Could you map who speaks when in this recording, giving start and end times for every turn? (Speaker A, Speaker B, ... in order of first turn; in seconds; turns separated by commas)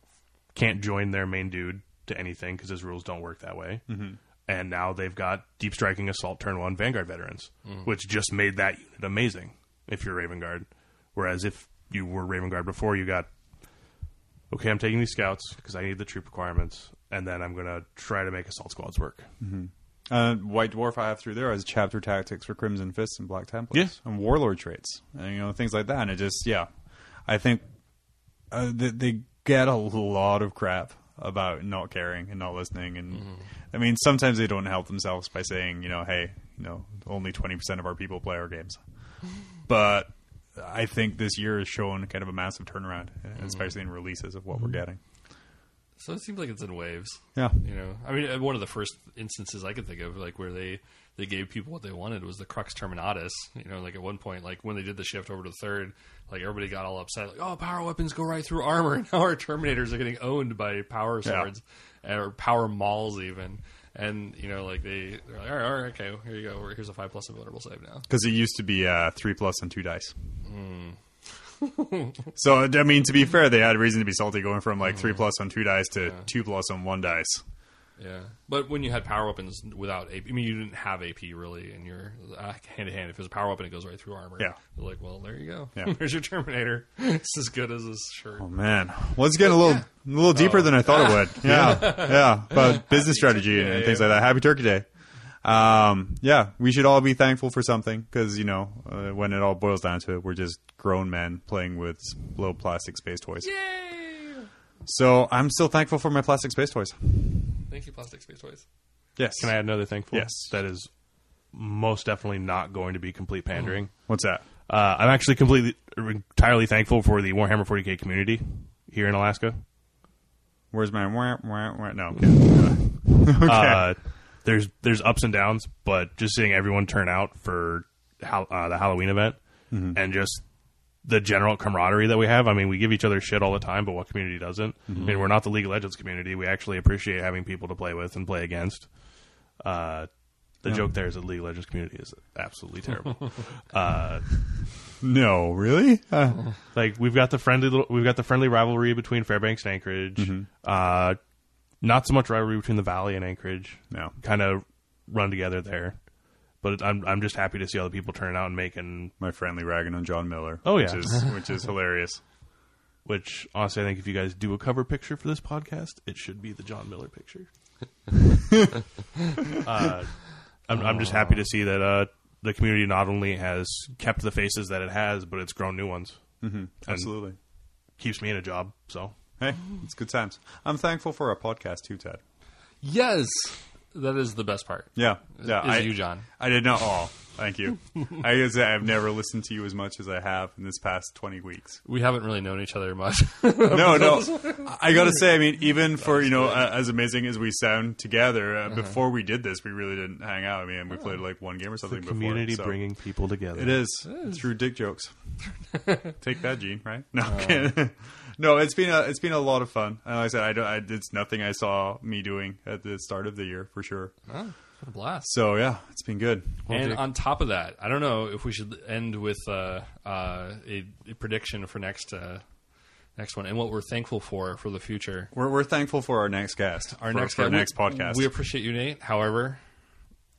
Speaker A: 0.5-3.9, Speaker B: 3.9-4.2, Speaker A: 4.5-13.3, Speaker A: 14.5-19.3, Speaker B: 19.4-26.7, Speaker B: 27.3-27.6, Speaker B: 28.5-38.8, Speaker B: 39.7-45.0, Speaker C: 43.4-43.7, Speaker C: 46.0-68.1, Speaker B: 47.4-47.6, Speaker B: 61.2-61.5, Speaker B: 68.1-70.1, Speaker C: 70.5-71.0, Speaker C: 71.6-72.2, Speaker B: 72.3-77.4, Speaker C: 78.0-88.5, Speaker B: 88.4-94.9, Speaker C: 89.4-94.2, Speaker A: 91.4-92.0, Speaker B: 95.4-103.5, Speaker C: 103.4-104.5, Speaker B: 104.9-107.5, Speaker C: 107.7-108.6, Speaker B: 109.2-110.5, Speaker A: 109.4-110.9, Speaker A: 111.5-114.1, Speaker B: 114.1-114.5, Speaker A: 114.7-119.6, Speaker B: 120.7-123.9, Speaker A: 122.2-130.4, Speaker B: 129.7-130.0, Speaker A: 131.0-138.9, Speaker B: 134.9-135.2, Speaker A: 139.6-140.1, Speaker A: 140.6-144.5, Speaker B: 145.0-146.5, Speaker A: 146.8-151.2, Speaker B: 150.2-150.5, Speaker A: 151.8-156.0, Speaker A: 156.6-159.1, Speaker B: 159.2-162.2, Speaker A: 160.7-161.3, Speaker A: 163.1-167.5, Speaker A: 169.6-176.2, Speaker C: 170.8-171.4, Speaker B: 176.4-177.4, Speaker A: 176.9-177.1, Speaker A: 178.0-179.1, Speaker B: 179.4-182.2, Speaker C: 182.8-186.3, Speaker B: 184.9-191.8, Speaker C: 191.8-194.8, Speaker B: 193.6-202.8, Speaker C: 196.1-196.6, Speaker A: 201.8-203.8, Speaker B: 203.5-205.1, Speaker C: 204.1-204.4, Speaker C: 205.8-206.1, Speaker B: 206.1-214.1, Speaker C: 207.2-207.7, Speaker C: 214.3-215.3, Speaker B: 215.2-216.7, Speaker A: 216.7-217.0, Speaker C: 216.7-222.4, Speaker C: 223.2-225.3, Speaker B: 225.3-228.3, Speaker C: 227.0-229.6